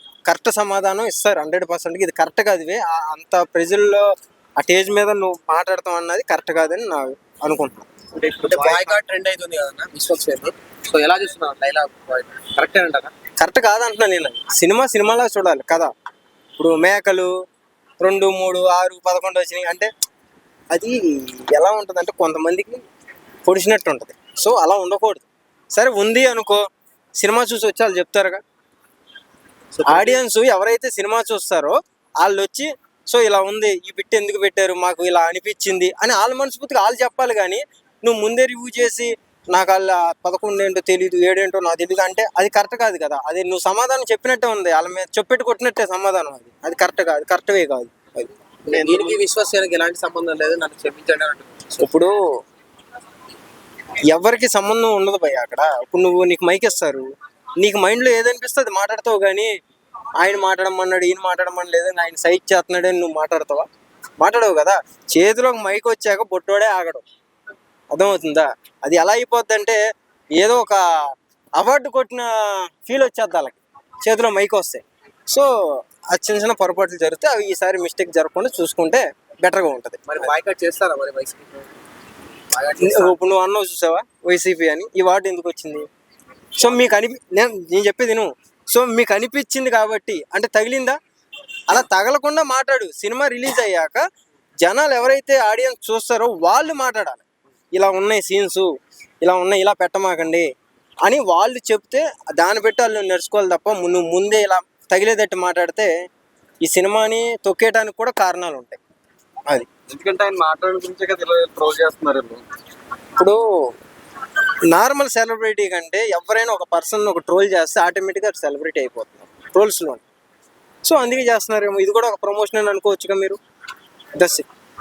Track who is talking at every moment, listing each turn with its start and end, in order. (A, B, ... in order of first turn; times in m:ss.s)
0:00.3-0:04.1 A
0:04.6-0:07.9 A
0:08.2-0:13.1 B
0:13.4-0:15.9 A
0:16.6-0:17.3 A
0:18.0-0:19.9 A
0:20.7-0:22.8 A
0:23.4-0:26.6 A
0:27.2-0:28.4 A
0:29.8-0:30.2 B
0:29.8-0:49.1 A
0:48.7-0:51.9 B
0:51.8-0:52.2 A
0:54.1-0:57.1 A
0:57.6-0:59.5 A
1:00.2-1:03.7 A
1:04.2-1:07.0 A
1:07.9-1:09.8 A
1:10.4-1:10.8 A
1:11.6-1:12.3 A
1:12.8-1:15.5 A
1:16.1-1:20.3 A
1:20.1-1:21.7 B
1:22.5-1:23.2 B
1:22.8-1:25.8 A
1:26.6-1:31.0 A
1:31.7-1:34.0 A
1:34.6-1:37.2 A
1:37.8-1:38.7 A
1:39.2-1:40.4 A
1:41.0-1:45.9 A
1:46.6-1:48.8 A
1:49.9-1:52.4 C
1:54.7-2:00.0 A
2:00.8-2:03.4 A
2:04.2-2:04.5 A